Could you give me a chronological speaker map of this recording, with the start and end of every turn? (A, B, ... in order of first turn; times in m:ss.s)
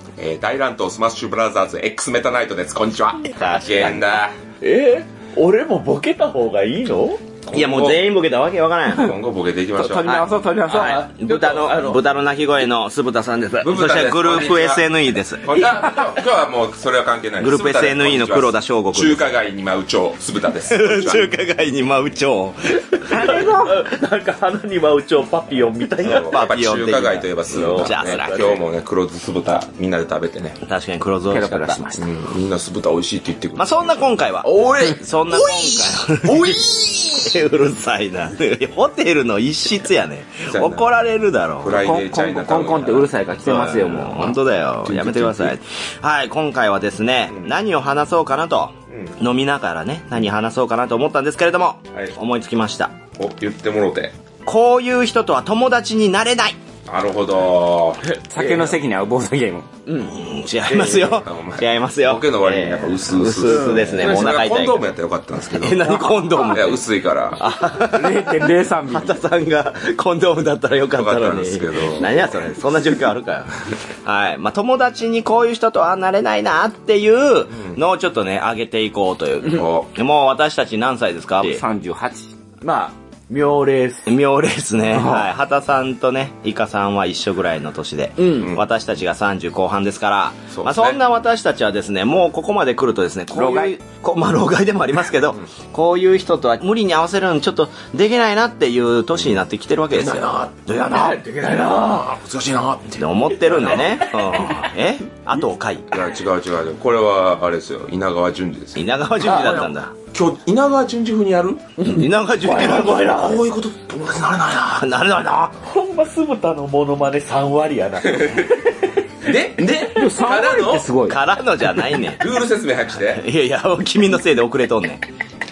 0:00.2-0:04.4 A
0:03.4-0:04.0 B
0:04.6-0:07.2 C
0:07.5-0:08.1 A
0:07.5-0:09.2 B
0:08.9-0:10.2 A
0:09.8-0:11.0 D
0:10.0-0:15.6 B
0:10.7-0:12.0 C
0:13.6-0:21.3 A
0:15.6-0:16.1 C
0:17.4-0:19.3 B
0:20.7-0:23.8 B
0:22.9-0:26.4 C
0:23.1-0:23.6 D
0:26.0-0:30.6 A
0:26.2-0:28.5 B
0:27.5-0:28.6 C
0:30.6-0:31.8 B
0:31.3-0:32.1 D
0:32.0-0:37.3 A
0:33.6-0:41.8 B
0:40.5-0:40.9 A
0:41.6-0:43.1 A
0:41.7-0:44.4 D
0:43.4-0:53.0 B
0:44.8-0:45.6 A
0:48.9-0:49.2 A
0:53.2-0:54.1 A
0:54.5-0:56.6 B
0:56.9-0:58.1 A
0:58.1-0:58.8 C
0:58.3-0:59.7 D
0:59.9-1:00.2 C
1:00.0-1:04.9 B
1:00.7-1:07.5 A
1:03.5-1:04.0 C
1:05.5-1:06.8 B
1:05.9-1:06.4 C
1:07.3-1:21.6 B
1:07.7-1:09.2 D
1:11.0-1:12.2 A
1:19.4-1:19.9 A
1:21.4-1:22.3 D
1:22.6-1:24.1 C
1:24.1-1:41.2 B
1:25.0-1:25.3 D
1:28.2-1:28.5 C
1:30.5-1:31.0 A
1:33.3-1:33.8 D
1:39.9-1:44.4 A
1:41.0-1:41.4 C
1:42.9-1:45.9 B
1:45.9-1:51.7 A
1:48.8-1:49.9 B
1:51.8-1:53.5 C
1:51.8-1:53.2 B
1:52.5-1:54.8 A
1:54.7-1:55.6 B
1:55.6-1:58.7 C
1:58.1-1:58.6 A
1:59.2-2:00.9 A
1:59.8-2:01.2 D
2:01.0-2:02.2 B
2:02.2-2:03.2 A
2:03.0-2:05.0 B